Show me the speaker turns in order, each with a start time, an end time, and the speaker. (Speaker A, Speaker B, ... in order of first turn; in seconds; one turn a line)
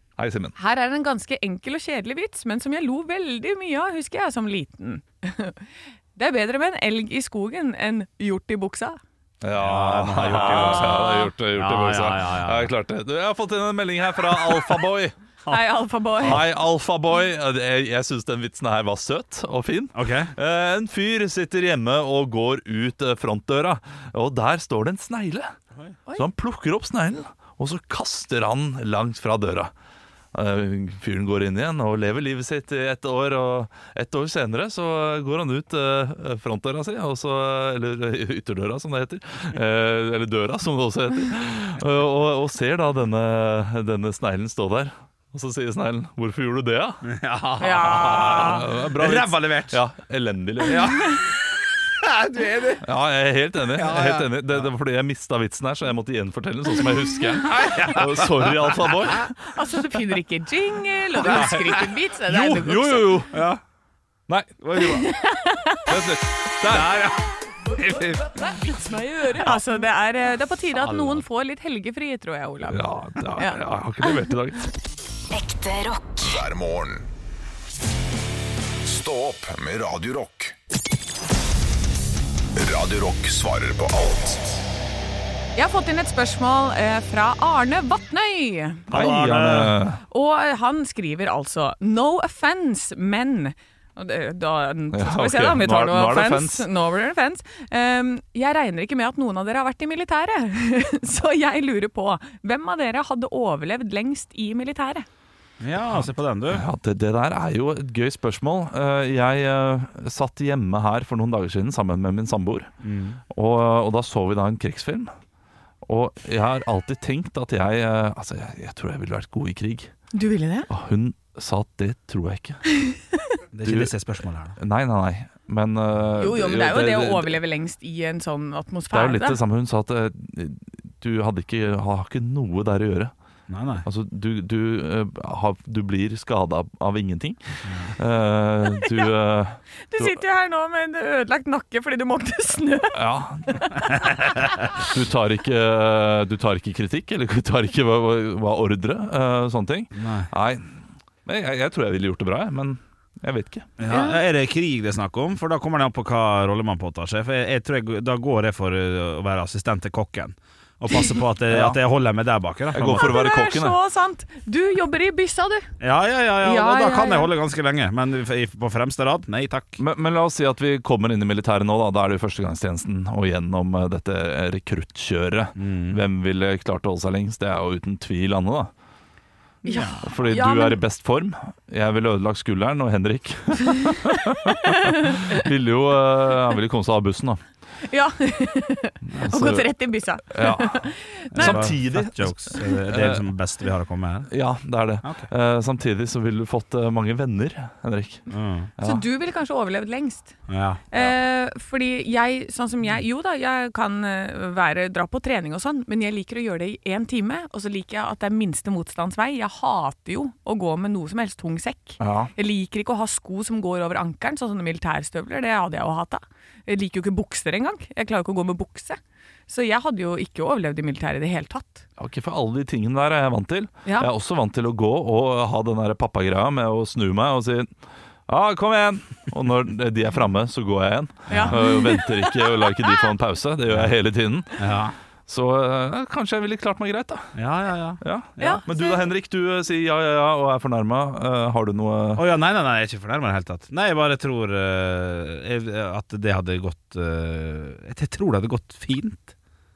Speaker A: 0.2-0.6
Speaker B: 0.6-5.6
Speaker B: 6.2-9.0
Speaker A: 9.4-15.1
Speaker C: 9.6-12.7
Speaker B: 10.3-11.3
Speaker B: 15.5-16.4
Speaker A: 16.2-25.5
Speaker C: 19.9-20.3
Speaker A: 26.1-29.7
Speaker A: 30.3-47.0
Speaker C: 47.0-49.8
Speaker B: 47.6-48.6
Speaker A: 47.8-51.1
Speaker C: 50.7-51.2
Speaker B: 50.8-51.2
Speaker C: 51.9-52.9
Speaker A: 52.8-59.4
Speaker C: 53.7-54.3
Speaker C: 57.5-58.9
Speaker B: 59.4-63.2
Speaker C: 61.2-61.8
Speaker A: 61.2-61.7
Speaker A: 62.2-63.5
Speaker C: 63.3-63.6
Speaker A: 64.3-65.0
Speaker C: 64.6-65.0
Speaker B: 64.8-66.0
Speaker A: 65.9-67.1
Speaker C: 66.6-68.7
Speaker B: 68.3-74.3
Speaker C: 70.8-71.2
Speaker A: 72.7-74.7
Speaker D: 75.3-77.1
Speaker D: 78.8-80.5
Speaker D: 82.6-84.6
Speaker B: 85.6-88.9
Speaker C: 88.9-89.8
Speaker A: 88.9-90.0
Speaker B: 90.1-105.1
Speaker A: 94.9-96.7
Speaker C: 105.6-106.6
Speaker A: 105.9-112.7
Speaker C: 112.8-113.2
Speaker A: 113.3-115.1
Speaker A: 115.8-119.9
Speaker B: 120.1-120.7
Speaker A: 120.7-122.6
Speaker B: 122.8-123.2
Speaker C: 123.5-124.6
Speaker A: 123.7-123.9
Speaker A: 124.6-127.4
Speaker B: 126.2-129.4
Speaker A: 128.9-133.1
Speaker C: 133.5-133.9
Speaker A: 133.8-140.2
Speaker C: 137.7-137.9
Speaker B: 139.9-143.9
Speaker A: 142.9-144.0
Speaker A: 144.7-153.7
Speaker C: 149.9-150.3
Speaker C: 153.8-163.1
Speaker B: 153.9-154.2
Speaker A: 161.5-161.8
Speaker A: 162.7-163.8
Speaker B: 162.9-165.7
Speaker C: 165.8-169.8
Speaker B: 166.4-167.3
Speaker A: 169.8-178.7
Speaker C: 175.6-176.0
Speaker C: 179.7-180.0
Speaker B: 179.7-180.8
Speaker A: 180.0-187.4
Speaker B: 184.7-185.4
Speaker B: 187.8-191.7
Speaker A: 189.2-189.7
Speaker A: 190.3-193.3
Speaker C: 191.3-194.3
Speaker A: 194.3-198.2
Speaker C: 195.0-195.3
Speaker C: 198.3-198.7
Speaker A: 198.8-199.1
Speaker B: 198.8-200.4
Speaker C: 200.5-200.8
Speaker B: 200.9-221.9
Speaker A: 212.0-212.3
Speaker A: 222.0-227.7
Speaker A: 228.3-234.7
Speaker C: 231.3-231.6
Speaker B: 231.3-232.8
Speaker C: 234.6-234.9
Speaker A: 235.3-237.4
Speaker C: 237.3-238.6
Speaker A: 238.0-242.2
Speaker B: 238.4-239.0
Speaker C: 242.2-249.3